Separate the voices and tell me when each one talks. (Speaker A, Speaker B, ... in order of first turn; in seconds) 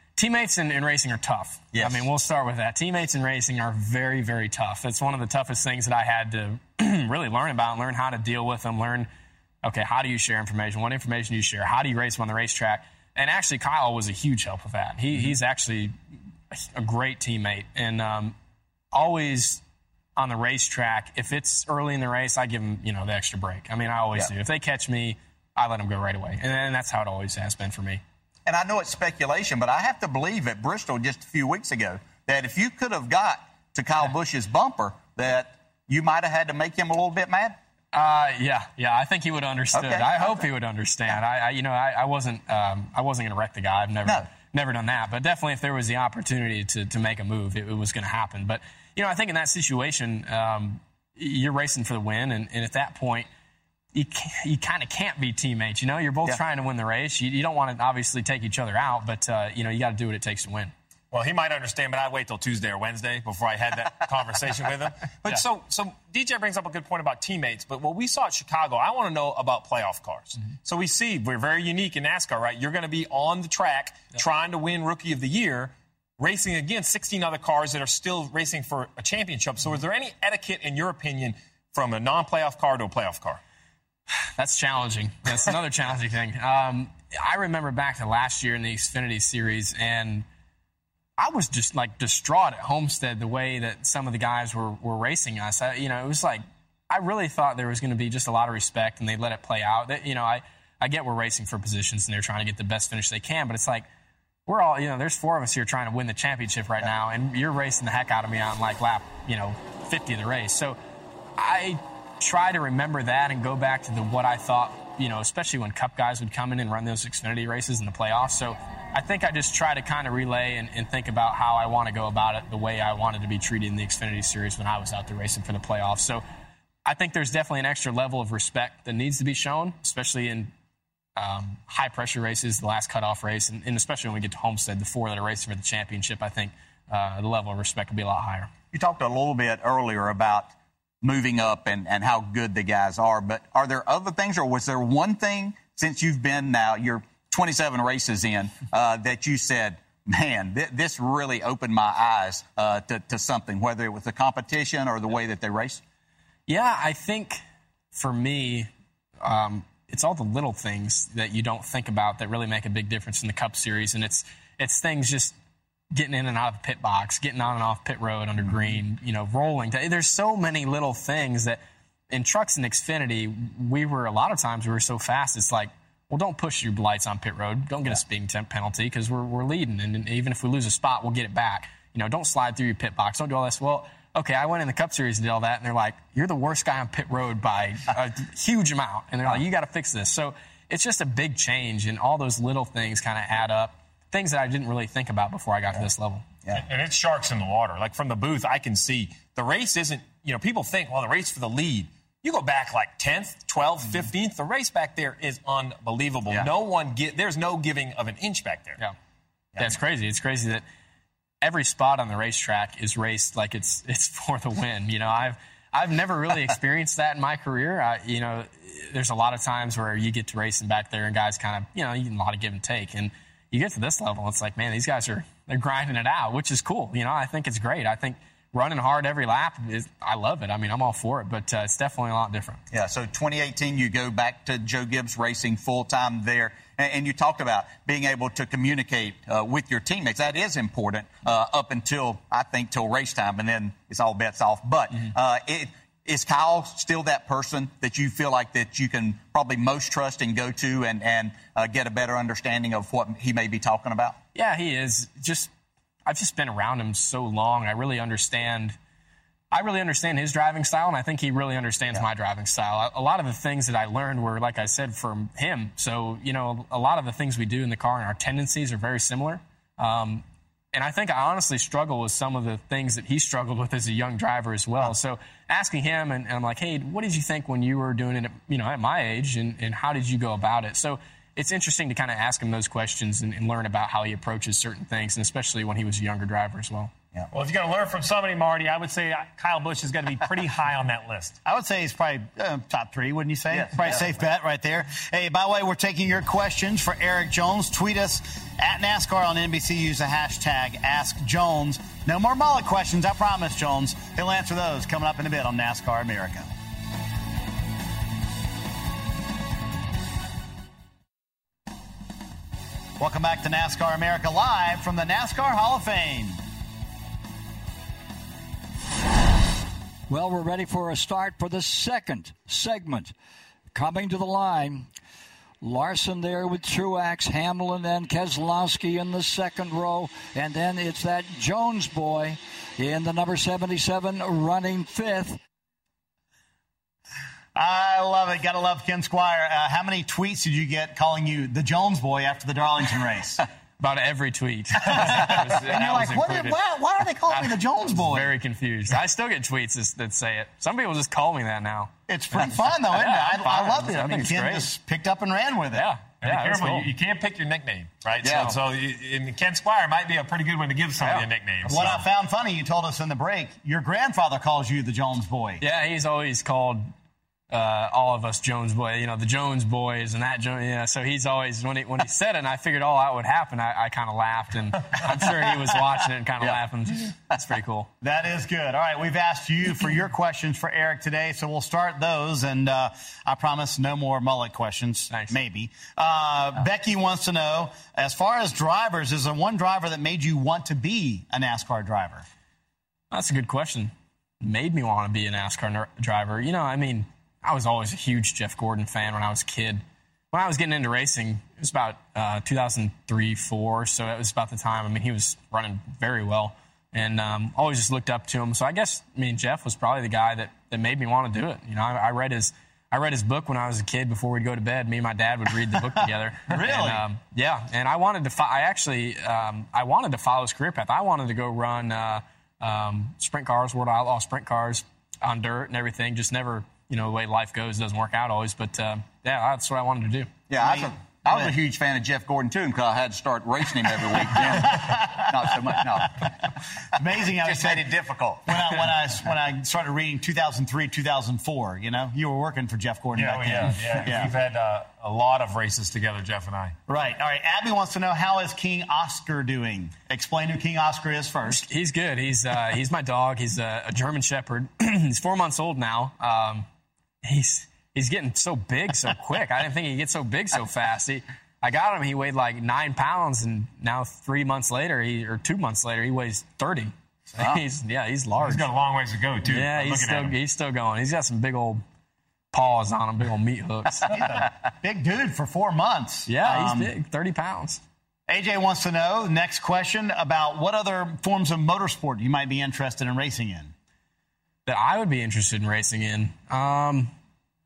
Speaker A: 0.2-9.1, 9.6-15.9, 16.5-18.4, 18.9-19.6, 20.2-28.0, 37.9-53.3, 54.0-60.7, 84.4-90.3, 91.2-103.9, 104.5-110.8, 111.4-126.2, 126.9-130.5, 131.2-138.5, 156.5-157.4, 157.9-158.7, 159.2-165.4, 165.9-171.6, 172.1-196.2, 209.6-210.7, 211.4-232.6, 254.3-255.5, 256.1-258.8, 259.5-286.9, 343.8-346.6, 347.3-354.7, 355.7-356.9, 358.3-358.6, 361.0-362.0, 365.6-366.9, 367.5-377.9, 393.1-430.3, 451.5-456.7, 457.2-468.7, 469.4-471.8, 472.5-474.1, 476.3-477.8, 484.7-487.1
Speaker B: 1.7-2.0, 28.5-37.6, 39.7-40.2, 138.7-155.8, 232.7-254.2, 293.5-294.1, 358.2-358.5, 430.5-436.3, 437.4-438.4
Speaker C: 61.1-83.4, 196.5-208.8, 287.3-291.4, 356.2-362.0, 443.1-446.7, 468.4-470.4
Speaker D: 291.4-306.5, 313.0-316.4, 337.6-343.4, 344.9-348.3, 352.1-355.9, 361.7-365.6, 378.0-392.2, 416.5-417.0, 430.6-431.5, 434.4-435.8, 437.0-437.9, 438.5-444.3, 446.9-451.6, 474.1-476.9, 478.3-483.7
Speaker E: 320.1-323.1, 323.8-324.9, 325.6-335.4